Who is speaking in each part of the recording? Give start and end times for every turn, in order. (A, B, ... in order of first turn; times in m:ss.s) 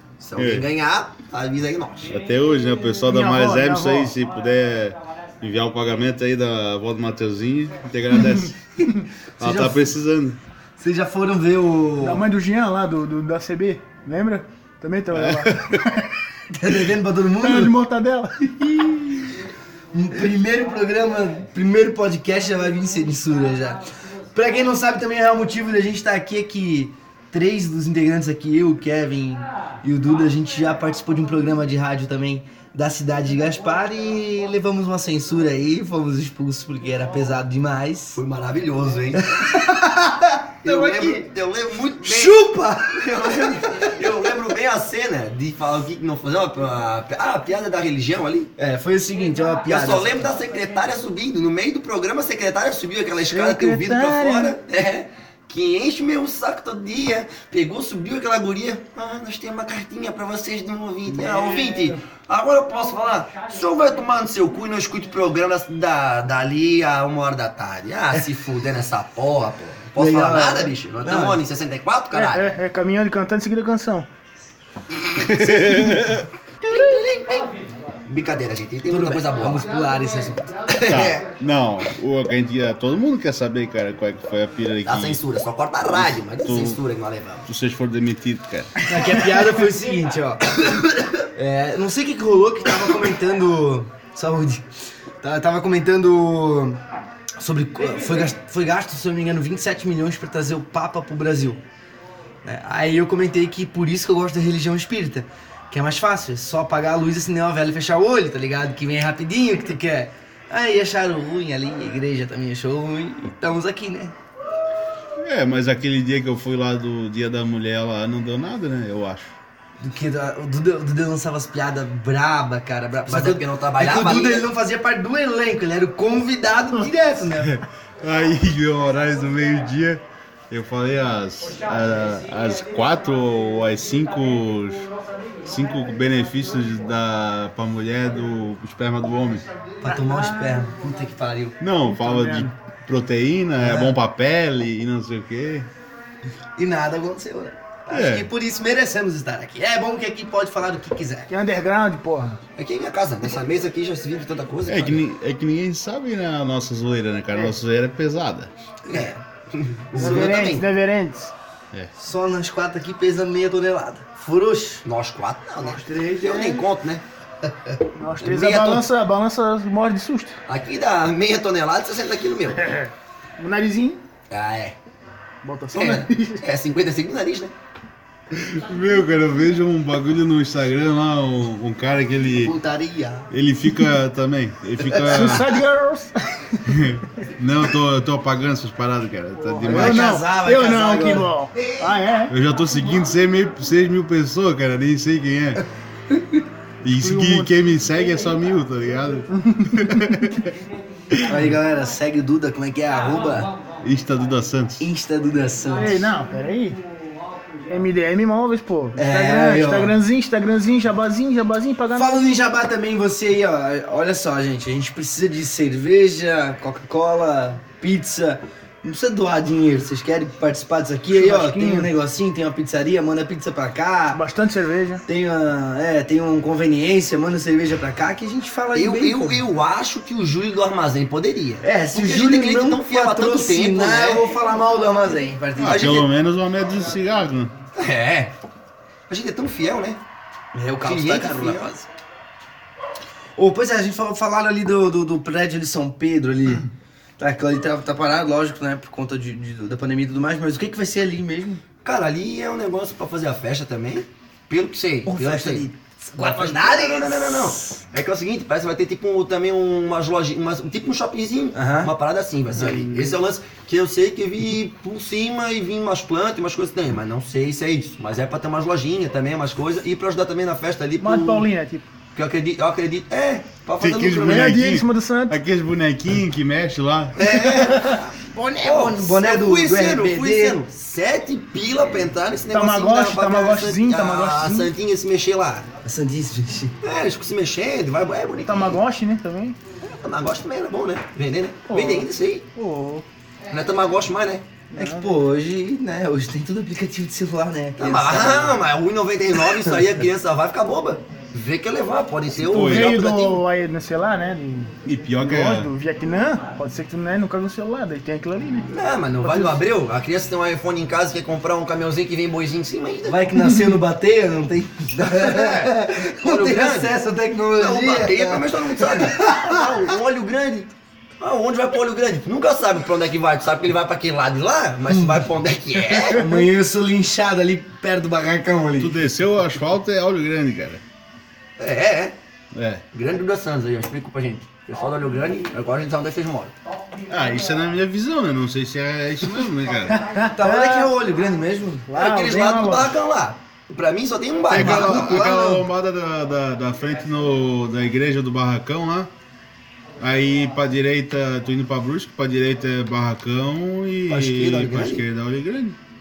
0:00.2-0:02.1 A
0:00.4-0:00.6 B
0:02.1-0:08.9 B
0:03.0-0:04.1 C
0:09.4-0:09.9 D
0:09.4-0:10.4 B
0:10.8-0:12.2 D
0:12.0-0:16.1 C
0:15.1-0:15.8 B
0:16.5-0:17.8 D
0:17.4-0:19.2 C
0:19.9-0:23.8 D
0:24.4-0:38.2 D
0:38.2-0:39.5 A
0:39.2-0:41.2 D
0:40.6-0:48.5 A
0:42.0-0:44.3 D
0:48.6-0:50.3 D
0:49.7-1:12.5 A
0:53.3-0:54.6 C
1:01.2-1:02.0 C
1:10.0-1:11.4 D
1:12.1-1:14.1 C
1:15.2-1:16.2 B
1:15.2-1:16.0 A
1:16.6-1:17.5 A
1:18.1-1:19.7 A
1:18.9-1:20.5 D
1:20.7-1:21.2 A
1:20.8-1:25.2 B
1:24.8-1:27.5 A
1:25.9-1:26.8 B
1:27.5-1:28.9 B
1:28.8-1:30.6 D
1:31.4-1:34.7 D
1:35.2-1:36.8 D
1:37.4-1:41.6 D
1:42.4-1:54.2 D
1:55.2-1:59.4 B
1:59.8-2:07.6 D
2:03.1-2:04.5 A
2:08.0-2:14.9 B
2:15.4-2:19.5 B
2:19.8-2:21.6 D
2:20.0-2:20.6 C
2:21.6-2:25.7 B
2:21.9-2:22.5 C
2:23.6-2:24.0 D
2:26.6-2:31.3 D
2:27.9-2:28.3 B
2:31.3-2:32.4 C
2:32.6-2:35.0 A
2:34.7-2:38.5 B
2:38.9-2:40.7 A
2:40.0-2:41.3 C
2:42.0-2:44.8 D
2:44.8-2:47.0 A
2:45.6-2:46.6 C
2:48.0-2:50.4 C
2:48.2-2:48.9 A
2:50.5-2:52.8 A
2:52.6-2:54.0 C
2:54.3-2:54.8 A
2:55.4-2:56.4 C
2:55.7-2:57.5 A
2:58.3-3:02.6 B
3:02.4-3:03.3 D
3:03.3-3:05.6 B
3:05.0-3:06.7 C
3:06.7-3:10.2 B
3:09.4-3:12.3 C
3:09.7-3:11.3 D
3:12.3-3:15.6 B
3:16.8-3:20.5 B
3:16.9-3:17.5 C
3:19.3-3:20.1 C
3:21.2-3:23.5 D
3:23.8-3:24.9 B
3:24.8-3:26.1 D
3:25.8-3:26.8 C
3:27.7-3:32.2 C
3:29.0-3:30.0 D
3:31.9-3:44.2 D
3:41.1-3:41.9 C
3:44.1-3:45.0 C
3:45.0-3:49.4 D
3:48.7-3:54.2 A
3:51.6-3:56.0 D
3:55.6-3:56.1 A
3:55.6-3:57.5 B
3:57.8-3:58.3 A
3:59.1-4:00.0 A
4:00.5-4:01.9 D
4:00.8-4:01.8 A
4:03.4-4:06.7 D
4:07.2-4:11.6 D
4:11.8-4:31.5 A
4:15.0-4:17.8 D
4:21.5-4:21.9 D
4:22.5-4:23.2 D
4:31.0-4:31.9 C
4:32.2-4:34.6 A
4:33.8-4:37.4 B
4:34.2-4:35.4 C
4:37.2-4:45.7 A
4:37.4-4:38.0 C
4:38.3-4:40.6 D
4:42.5-4:44.7 C
4:45.8-4:46.8 D
4:46.8-4:48.8 A
4:48.4-4:49.6 C
4:49.8-4:52.4 A
4:51.7-4:53.0 C
4:53.5-4:54.5 A
4:54.7-4:55.1 C
4:54.7-4:58.6 D
4:57.8-5:03.4 A
5:02.4-5:03.0 B
5:02.4-5:08.7 C
5:04.8-5:05.7 B
5:08.7-5:13.5 A
5:09.2-5:09.6 C
5:13.0-5:19.8 D
5:15.0-5:17.0 A
5:17.5-5:26.3 A
5:25.0-5:25.2 D
5:26.0-5:29.0 D
5:28.8-5:30.8 B
5:31.6-5:32.2 A
5:32.5-5:32.8 B
5:32.9-5:36.5 A
5:37.1-5:40.0 B
5:39.9-5:40.9 C
5:40.2-5:41.9 D
5:41.9-5:43.0 C
5:41.9-5:45.7 A
5:44.5-5:49.1 B
5:44.6-5:45.0 D
5:50.0-5:55.8 B
5:54.1-5:55.0 A